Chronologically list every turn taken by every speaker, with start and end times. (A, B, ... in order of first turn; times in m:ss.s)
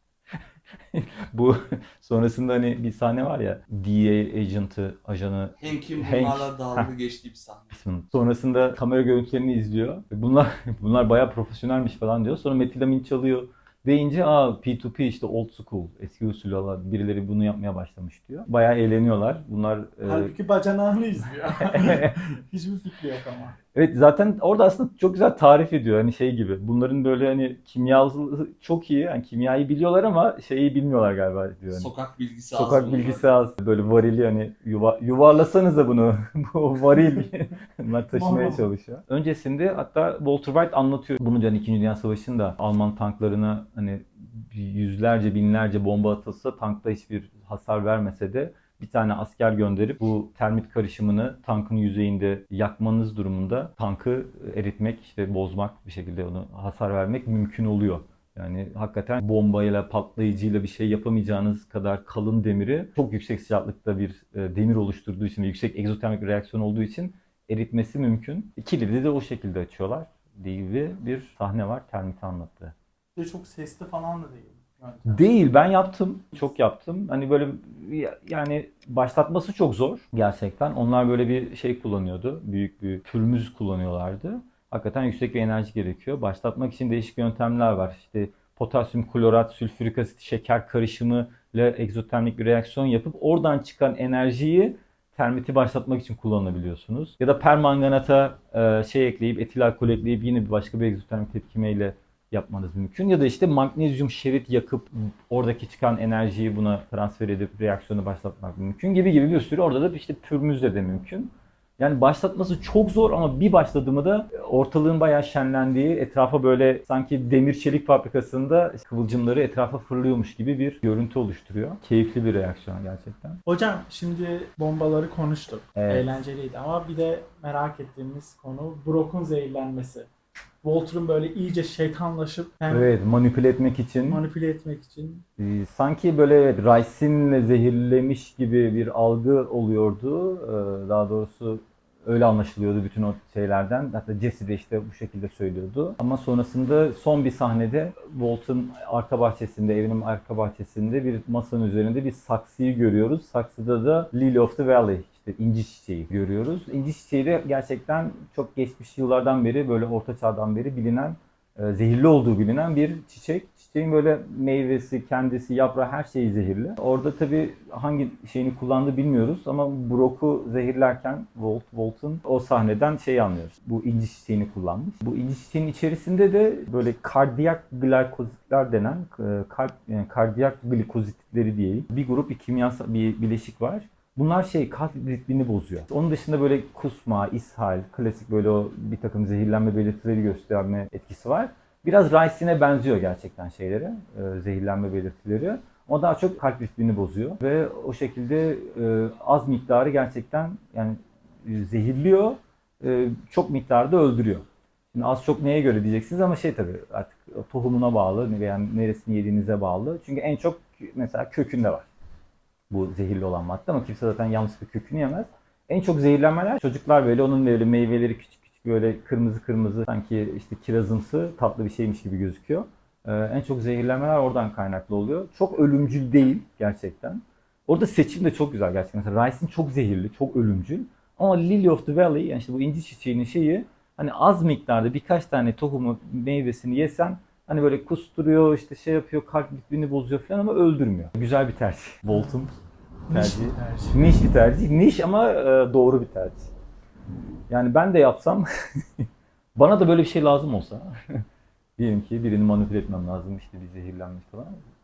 0:00.9-0:06.9 A
0:05.6-0:07.8 B
0:07.7-0:20.3 A
0:20.0-0:23.6 C
0:21.6-0:22.2 A
0:23.7-0:31.9 A
0:31.7-0:33.3 B
0:32.5-1:12.7 A
0:38.1-0:38.7 C
1:13.1-1:15.2 C
1:15.1-2:03.4 A
2:03.4-2:10.1 C
2:05.8-2:06.1 A
2:10.6-2:12.9 C
2:12.7-2:14.2 A
2:14.1-2:15.2 C
2:15.4-3:31.9 A
3:32.7-4:02.5 A
4:03.1-4:04.0 C
4:03.1-4:06.5 A
4:07.5-4:11.2 A
4:11.8-4:14.6 A